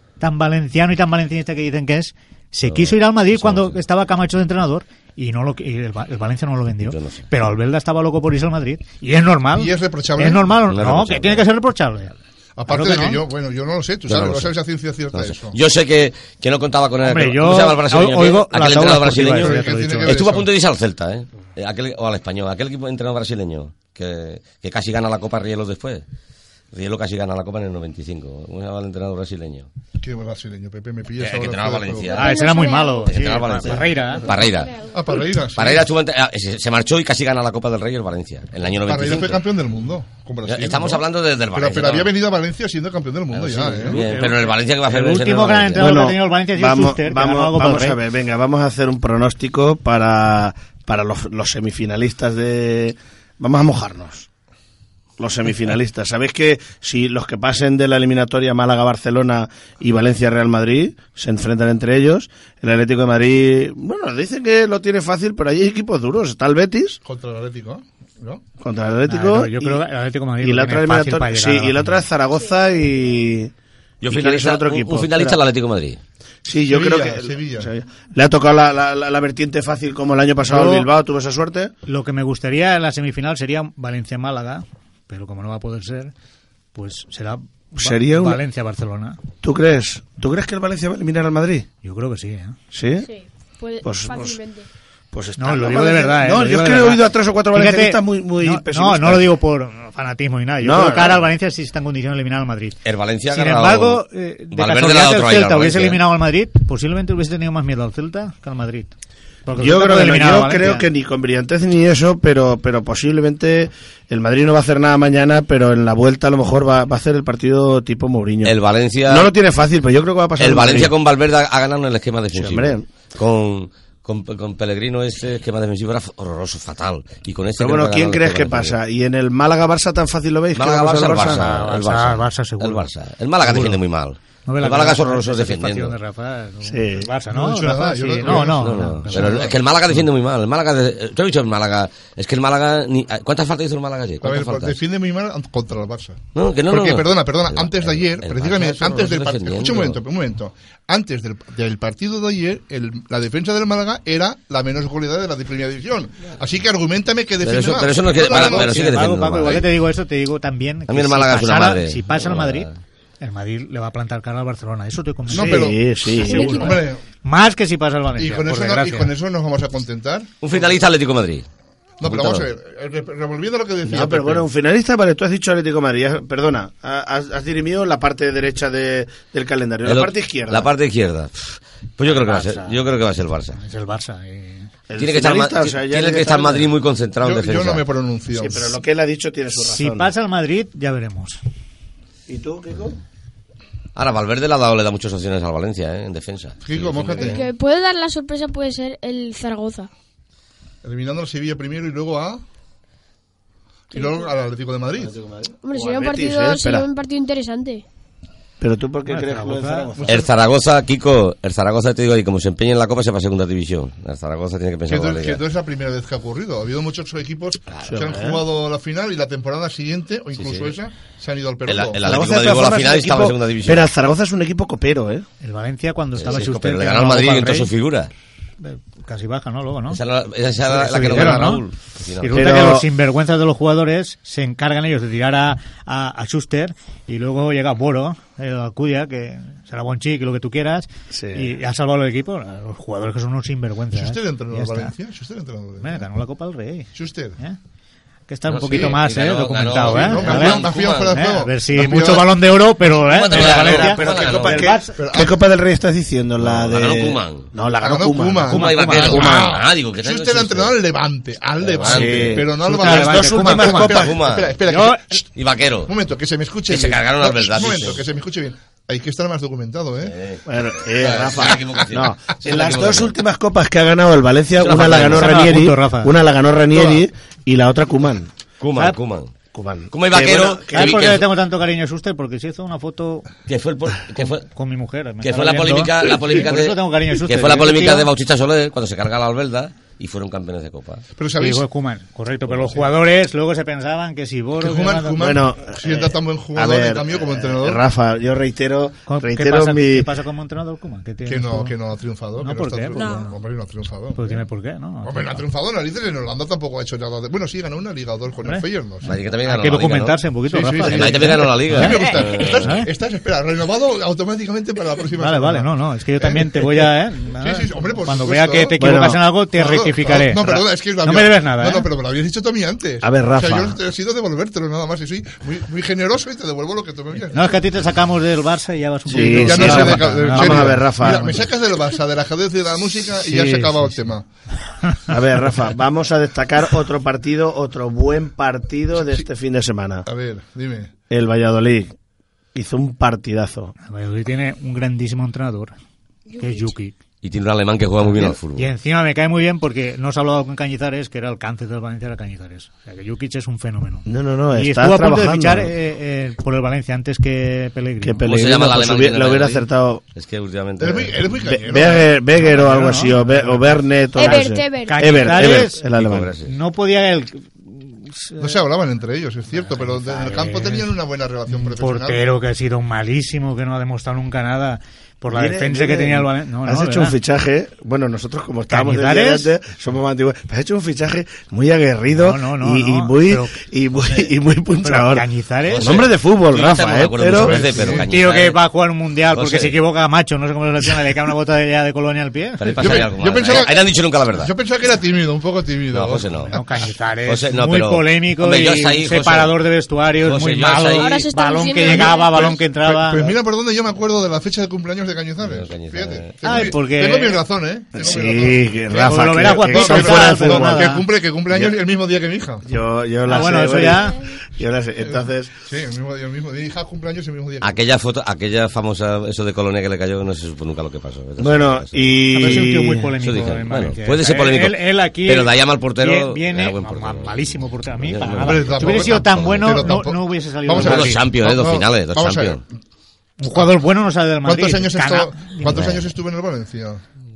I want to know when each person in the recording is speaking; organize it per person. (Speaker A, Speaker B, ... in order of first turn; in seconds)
Speaker A: 0.2-12.1, 12.7-13.2, 17.0-20.2, 32.1-34.3, 43.9-48.0, 69.1-72.0, 80.4-80.9, 81.8-86.1, 86.7-89.2, 91.8-92.5, 95.4-102.8, 103.3-108.9, 109.5-110.9, 131.2-132.9, 133.4-133.8, 134.4-139.5, 158.2-162.7, 163.2-165.7, 166.3-169.1, 182.0-182.8, 183.5-184.7, 189.6-191.4, 209.1-209.9, 225.4-227.7, 228.6-230.0, 230.6-231.6, 232.2-244.9, 245.8-247.6, 248.3-255.1, 258.5-259.4, 262.6-264.1, 264.6-265.2, 274.9-276.1, 280.7-283.3, 284.2-288.1, 291.4-295.2, 299.1-301.7, 302.4-303.3, 304.1-305.4, 309.4-312.9, 315.1-321.9, 327.3-331.2, 333.3-333.7, 343.8-345.7, 346.4-346.9, 348.0-358.3, 362.4-365.8, 366.4-368.4, 370.0-370.9, 371.5-377.2, 378.7-379.5, 382.1-384.3, 384.8-385.9, 387.8-393.1, 396.4-403.3, 406.4-407.4, 408.9-411.1, 413.2-414.2, 422.3-431.2, 433.4-435.9
Speaker B: 2.7-3.8, 6.8-7.2, 10.7-11.4, 14.1-14.5, 15.1-26.0, 26.7-29.7, 31.2-32.5, 33.0-34.7, 35.5-39.4, 40.4-42.1, 43.3-46.0, 74.0-76.0, 102.8-106.0, 118.4-119.3, 120.4-128.8, 130.5-135.9, 138.2-144.8, 146.3-150.0, 157.4-159.7, 160.9-162.7, 170.4-171.4, 172.0-172.4, 179.8-183.6, 185.0-187.8, 193.9-197.4, 210.1-215.4, 221.7-223.9, 226.2-228.1, 229.9-232.3, 248.5-251.2, 251.8-252.2, 253.0-254.8, 256.4-257.5, 258.5-260.7, 261.6-262.4, 263.5-264.6, 265.3-265.9, 266.7-268.0, 270.0-273.1, 274.6-275.6, 278.6-279.3, 279.9-281.2, 283.5-284.5, 285.2-291.0, 309.0-310.2, 310.8-312.7, 347.2-348.7, 358.2-361.2, 365.6-366.5, 385.7-388.6, 389.3-389.8, 392.6-394.5, 395.9-396.6, 397.2-399.6, 400.2-401.2, 405.4-406.3, 417.6-429.9, 430.7-432.6, 435.6-436.1
Speaker C: 9.5-10.5, 12.6-15.6, 19.3-20.5, 30.0-32.1, 34.9-35.9, 38.8-44.0, 67.0-68.4, 76.5-77.7, 137.3-139.6, 144.2-158.8, 165.3-167.0, 168.2-170.3, 172.0-174.5, 187.2-188.8, 196.6-197.4, 200.8-202.4, 203.9-205.1, 210.0-210.3, 214.9-222.0, 243.9-246.1, 246.9-247.4, 248.7-249.0, 249.8-252.4, 254.9-255.4, 257.8-265.3, 265.9-270.1, 276.7-277.1, 291.1-291.6, 292.6-292.9, 294.6-297.8, 301.2-304.4, 305.0-309.1, 310.5-318.8, 319.5-327.6, 329.1-334.3, 340.0-340.9, 360.8-362.1, 368.4-372.2, 387.3-388.1, 392.8-396.3, 402.2-412.6, 415.0-417.8, 428.4-432.6, 434.4-437.0
Speaker D: 32.1-33.2, 34.0-35.0, 93.0-94.7, 166.2-166.8, 197.2-199.9, 203.9-204.2, 205.6-207.8, 302.9-303.3, 346.3-346.6, 364.1-365.1, 401.0-402.5, 413.9-414.4
Speaker E: 45.8-54.3, 55.2-67.0, 68.6-69.8, 70.4-73.5, 74.0-75.4, 76.5-81.7, 87.8-88.4, 89.4-91.7, 92.7-93.1, 93.8-94.4, 95.1-99.2, 100.6-101.2, 109.6-118.5, 119.1-120.9, 122.3-122.8, 127.6-131.5, 136.6-137.1, 165.3-166.8, 173.8-180.7, 184.9-186.7, 188.3-190.1, 192.3-193.0, 205.0-206.9, 208.6-210.2, 217.8-218.4, 222.0-225.2, 232.3-232.8, 241.1-241.5, 253.3-259.5, 261.8-263.6, 270.4-278.3, 279.5-280.9, 295.2-300.1, 318.8-319.2, 323.0-323.8, 329.1-331.4, 335.1-340.1, 341.1-341.9, 342.5-343.7, 354.1-355.7, 358.0-360.0, 361.4-366.3, 375.3-385.3, 385.8-388.0, 407.9-410.9, 411.5-411.8, 412.6-415.5, 421.4-423.1